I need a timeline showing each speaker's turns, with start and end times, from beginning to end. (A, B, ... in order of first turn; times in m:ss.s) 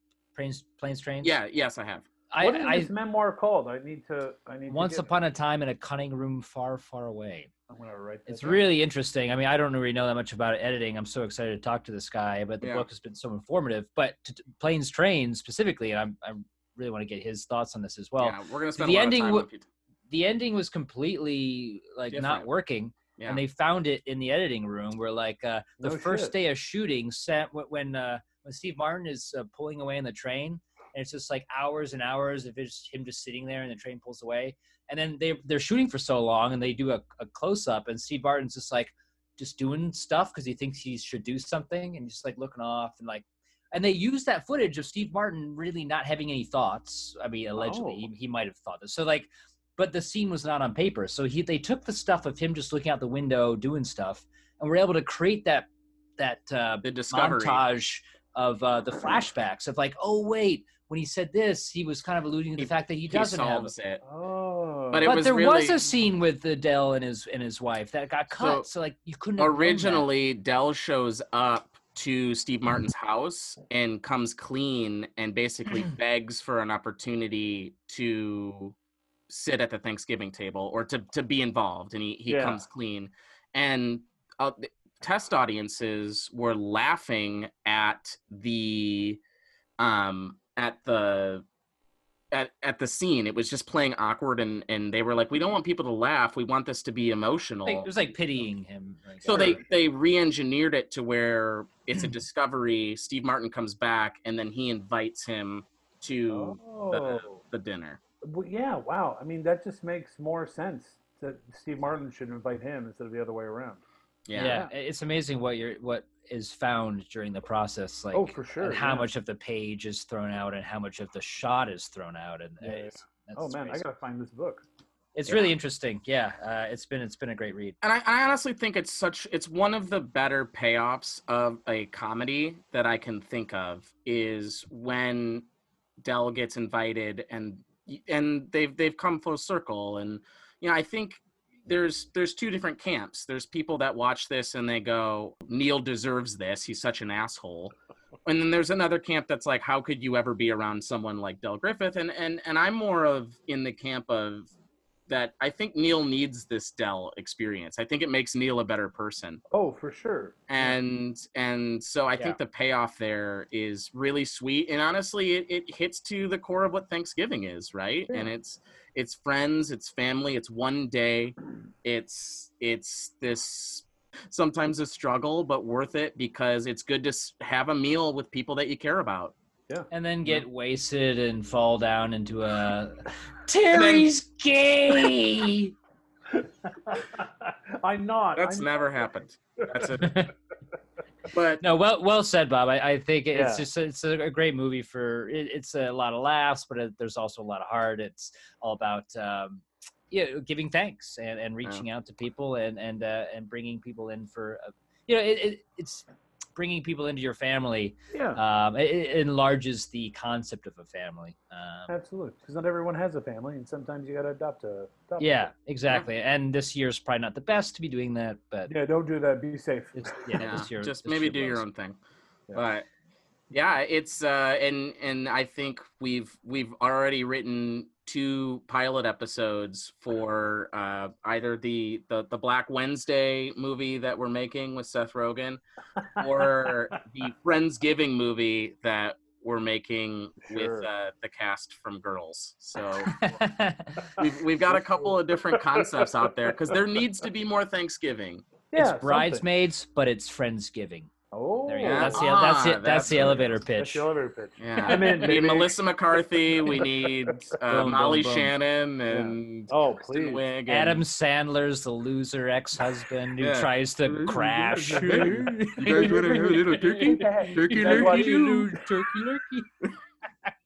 0:00.3-0:01.4 A
0:01.2-0:02.1 B
0:02.3-0:02.9 A
0:02.4-0:05.1 C
0:04.7-0:07.5 A
0:07.7-0:08.6 C
0:08.3-0:19.5 A
0:12.6-0:12.9 B
0:18.2-0:19.7 B
0:20.1-1:03.7 A
0:22.1-0:22.5 B
0:23.2-0:23.4 B
0:25.8-0:26.3 C
0:47.6-0:48.1 C
0:56.8-0:57.6 B
1:02.6-1:04.0 B
1:04.0-1:05.1 C
1:04.9-1:05.9 B
1:05.0-1:10.1 A
1:08.3-1:08.7 B
1:09.4-1:18.8 B
1:19.3-1:29.2 B
1:22.3-1:22.6 C
1:29.8-1:31.4 B
1:32.3-1:37.9 B
1:37.7-1:39.6 A
1:39.2-1:48.0 B
1:39.3-1:39.6 C
1:46.3-1:47.4 C
1:48.2-1:53.8 C
1:54.3-1:54.6 B
1:54.4-2:03.9 A
1:54.4-1:54.7 C
1:58.1-1:59.1 C
2:02.6-2:04.6 C
2:05.2-2:07.8 A
2:05.3-2:05.5 B
2:07.8-2:15.5 B
2:16.0-2:27.7 B
2:28.3-2:34.5 B
2:35.1-2:39.4 B
2:39.5-2:40.8 C
2:40.5-2:59.4 B
2:59.7-3:00.4 C
2:59.9-3:05.7 A
3:03.7-3:04.1 B
3:06.3-3:09.1 C
3:08.4-3:10.3 B
3:10.0-3:10.3 A
3:11.3-3:11.6 B
3:11.6-3:31.9 A
3:13.3-3:13.6 C
3:28.1-3:28.4 C
3:31.9-3:35.5 C
3:35.2-3:38.7 A
3:38.7-3:40.4 C
3:40.0-3:41.6 A
3:40.4-3:42.0 B
3:42.5-3:42.9 B
3:43.5-3:55.6 B
3:56.2-4:03.3 B
4:00.5-4:00.9 C
4:03.1-4:04.1 A
4:04.2-4:06.8 C
4:04.2-4:08.4 B
4:08.7-4:09.4 C
4:08.7-4:11.1 A
4:11.3-4:12.3 C
4:11.7-4:14.0 A
4:11.8-4:13.5 B
4:13.1-4:15.7 C
4:14.6-4:21.0 B
4:14.8-4:15.3 A
4:16.7-4:17.4 C
4:17.6-4:18.5 A
4:19.1-4:20.4 C
4:20.7-4:29.7 A
4:23.4-4:28.7 B
4:24.8-4:28.8 C